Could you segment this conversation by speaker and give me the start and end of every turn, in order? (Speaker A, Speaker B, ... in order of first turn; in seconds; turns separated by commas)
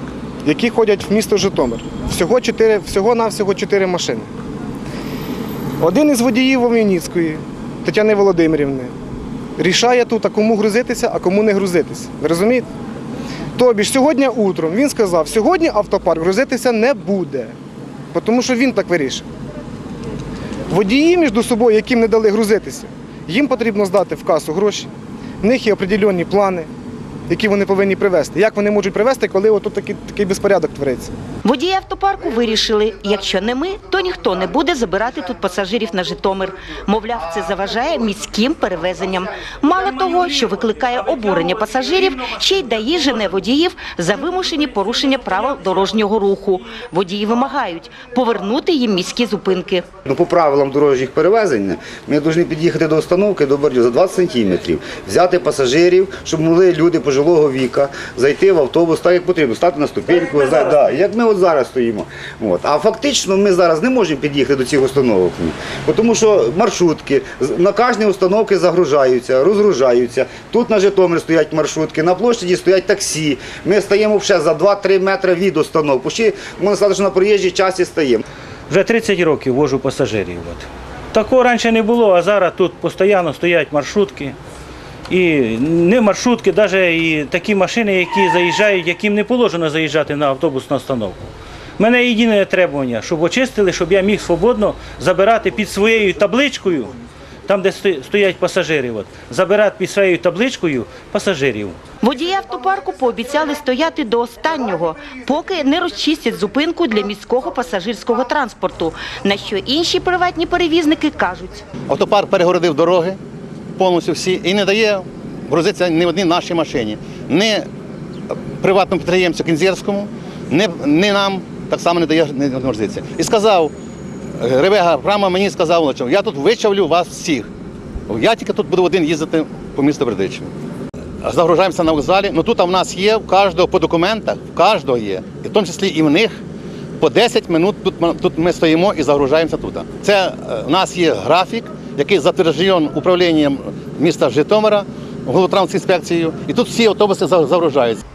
Speaker A: 0.4-4.3, Speaker A: 5.8-8.9, Speaker A: 9.6-12.7, Speaker A: 13.6-17.5, Speaker A: 18.1-19.2, Speaker A: 20.7-24.9, Speaker A: 25.4-26.7, Speaker A: 27.3-31.1, Speaker B: 31.4-49.9, Speaker C: 50.0-78.2, Speaker D: 78.7-84.3, Speaker D: 85.1-91.2, Speaker D: 91.8-96.9, Speaker D: 97.5-101.8, Speaker B: 102.0-111.7, Speaker E: 111.9-113.2, Speaker E: 113.8-117.7, Speaker E: 118.3-123.7, Speaker E: 124.4-127.5, Speaker E: 128.1-130.5, Speaker E: 131.2-136.4, Speaker E: 137.0-148.0